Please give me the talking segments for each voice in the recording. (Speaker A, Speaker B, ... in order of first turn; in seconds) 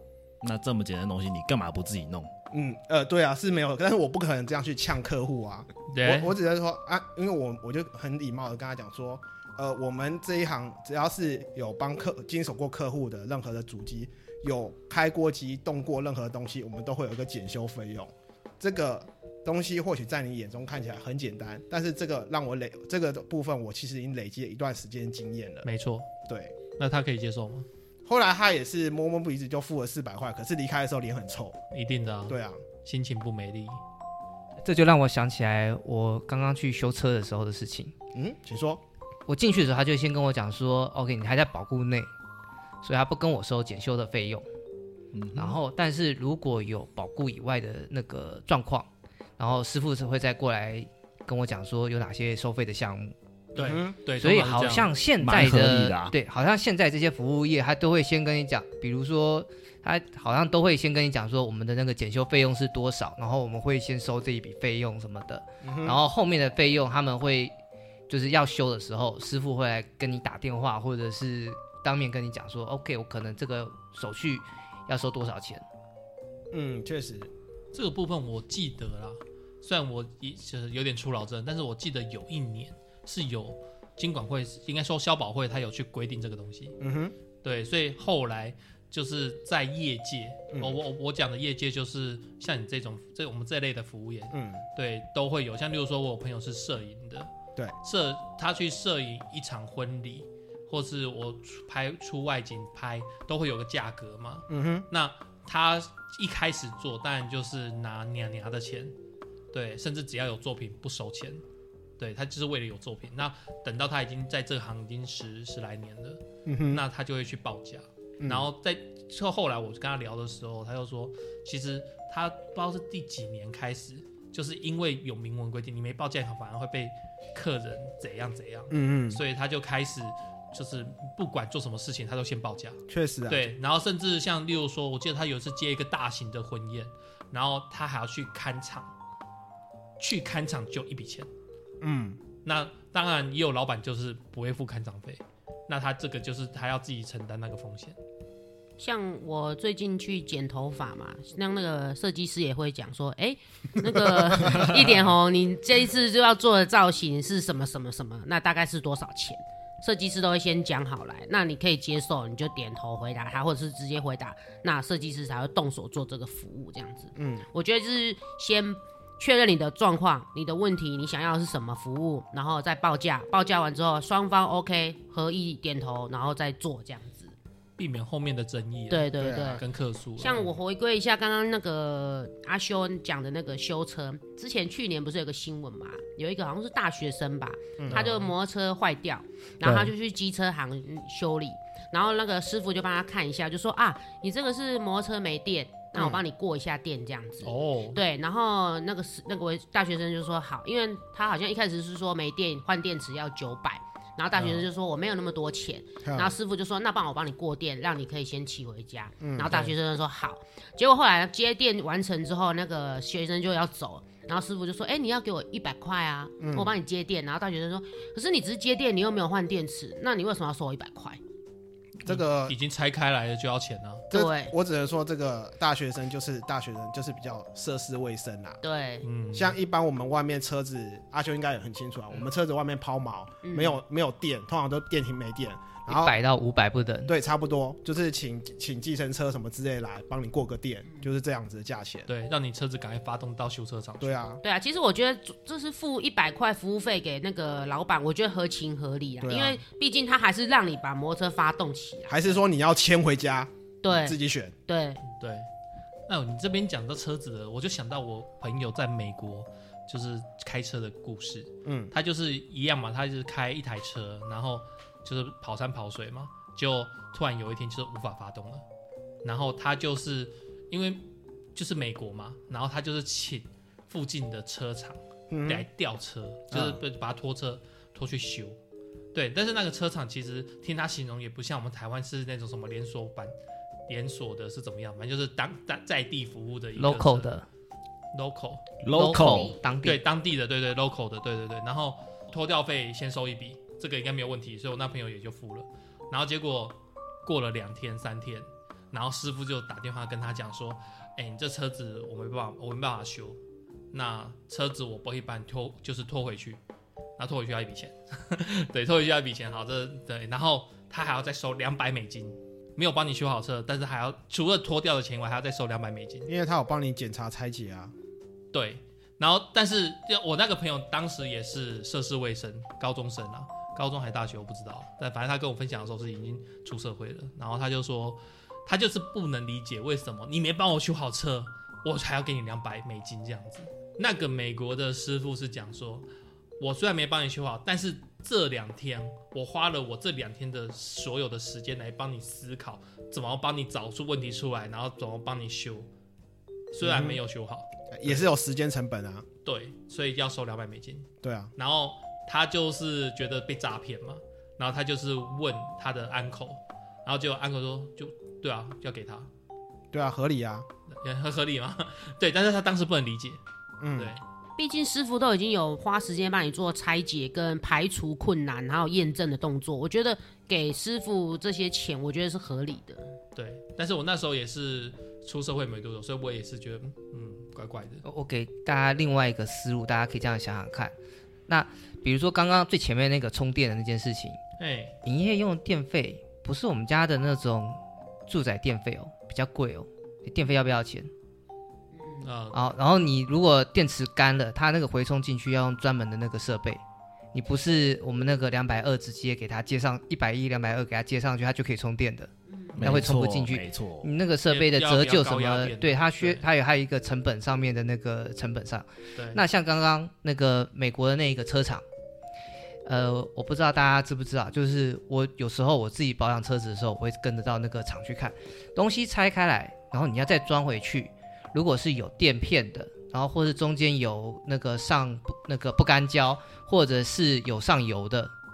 Speaker A: 0.4-2.3, 45.1-45.6, 55.2-56.1, 288.8-289.6, 402.8-404.1
Speaker B: 2.5-25.6, 26.2-26.5, 28.1-31.6, 32.3-32.6, 38.1-38.8, 53.5-54.0, 65.6-66.0, 76.5-77.3, 86.8-87.1, 94.3-94.6, 104.5-104.8, 116.5-116.8, 118.2-118.5, 128.7-129.2, 132.9-133.4, 141.8-142.2, 167.1-167.4, 179.2-179.6, 187.8-188.1, 195.9-196.2, 206.0-206.3, 209.2-209.6, 216.4-216.7, 222.0-222.5, 224.1-228.6, 229.3-236.1, 237.1-242.1, 244.0-244.4, 249.2-249.6, 252.1-254.5, 261.6-261.9, 275.3-275.6, 276.5-276.8, 316.3-317.9, 346.8-347.2, 347.9-349.2, 351.2-351.5, 359.9-360.6, 363.8-364.1
Speaker C: 5.9-6.3, 25.6-26.1, 26.8-27.6, 31.7-33.8, 53.5-54.9, 77.7-86.8, 87.4-97.3, 97.8-108.9, 109.5-111.4, 112.0-138.9, 140.0-141.3, 142.4-147.9, 177.8-180.5, 187.9-188.3, 189.6-189.9, 197.4-198.0, 209.4-209.7, 222.0-224.1, 229.0-229.6, 242.1-244.2, 255.1-255.5, 256.1-268.6, 269.2-271.0, 271.5-278.6, 279.1-283.3, 283.9-287.3, 288.1-288.7, 289.8-303.4, 303.9-306.6, 307.2-316.3, 318.5-336.1, 336.6-345.9, 346.7-348.3, 349.4-359.3, 360.9-363.4, 363.9-364.2, 373.3-378.0, 384.6-384.9, 392.2-392.6, 404.5-406.4, 409.1-409.4
Speaker D: 34.6-37.9, 39.3-42.1, 42.8-44.5, 45.3-53.1, 54.2-67.5, 68.1-75.6, 235.9-237.1, 286.8-287.4, 288.9-290.0, 378.0-380.9, 381.5-384.4, 385.0-391.1, 392.5-396.8, 397.3-411.8, 412.8-428.3
Speaker E: 148.8-177.3, 178.9-179.6, 180.2-221.2, 224.1-224.5, 228.6-229.0, 233.4-233.8, 244.4-252.4, 253.8-255.0, 289.3-289.5, 364.6-373.1, 391.9-392.3, 402.5-402.8